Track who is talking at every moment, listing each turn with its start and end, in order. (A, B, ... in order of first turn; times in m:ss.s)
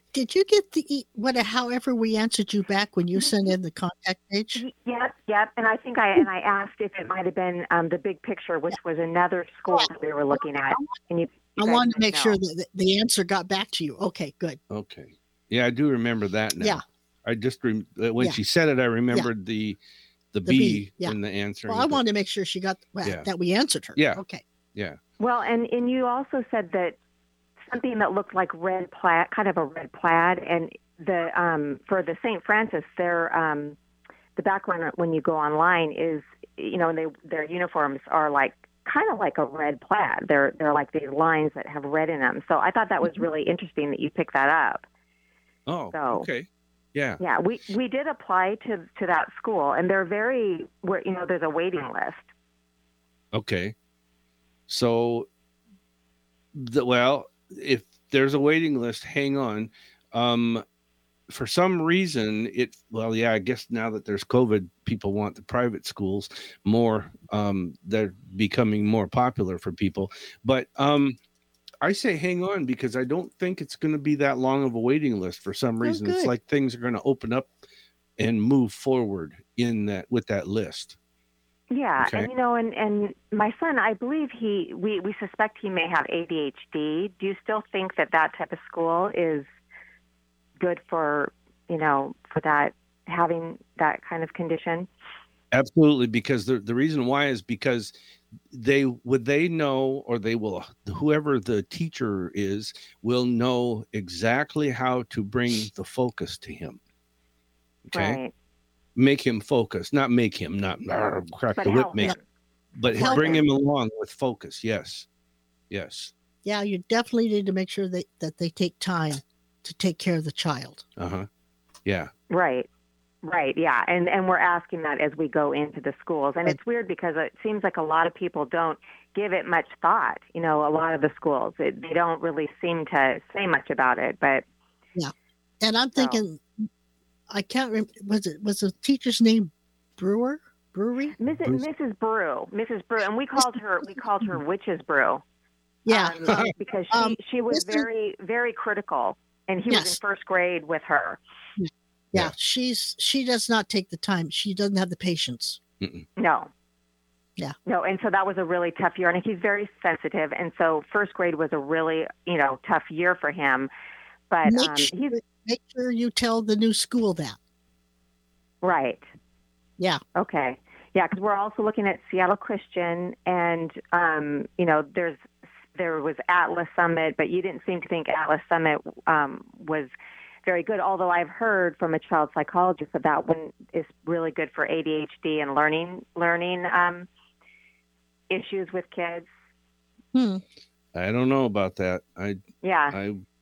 0:00.1-0:04.6 A
0:04.6-0:12.4 B
0:09.7-0:11.0 A
0:11.6-0:14.6 A
0:14.7-0:19.8 C
0:20.3-0:22.0 C
0:20.5-0:24.4 A
0:24.0-0:24.2 C
0:25.2-0:27.0 B
0:27.7-0:33.8 B
0:34.4-0:44.8 B
0:45.7-0:47.2 C
0:45.9-0:46.3 B
0:47.2-0:52.3 B
0:53.3-0:53.7 C
0:54.7-0:55.3 C
0:56.6-1:00.6 C
1:01.3-1:11.2 C
1:11.8-1:17.5 C
1:15.8-1:16.3 A
1:18.2-1:21.0 C
1:21.7-1:29.5 B
1:22.0-1:22.3 C
1:30.6-1:34.9 B
1:35.5-1:37.9 C
1:38.5-1:46.8 C
1:47.9-1:48.2 C
1:47.9-1:48.3 B
1:49.0-1:52.2 C
1:51.6-1:52.2 B
1:52.8-1:55.1 C
1:53.0-1:53.4 A
1:53.0-1:53.4 B
1:55.7-1:56.1 C
1:56.4-2:00.8 A
2:01.0-2:01.3 C
2:01.8-2:02.1 C
2:02.3-2:02.7 B
2:03.2-2:14.4 B
2:15.0-2:16.7 A
2:16.0-2:16.2 B
2:17.3-2:21.1 A
2:21.2-2:25.2 B
2:23.4-2:24.4 A
2:25.9-2:27.8 A
2:25.9-2:31.2 B
2:29.7-2:30.0 A
2:31.6-2:35.6 A
2:35.8-2:36.1 C
2:36.2-2:36.5 B
2:37.6-2:43.7 B
2:44.3-2:45.2 B
2:44.4-2:47.4 A
2:48.6-2:49.0 B
2:50.2-2:59.9 B
3:00.4-3:07.1 B
3:08.3-3:09.3 B
3:10.1-3:10.4 A
3:10.9-3:13.2 C
3:12.6-3:13.0 B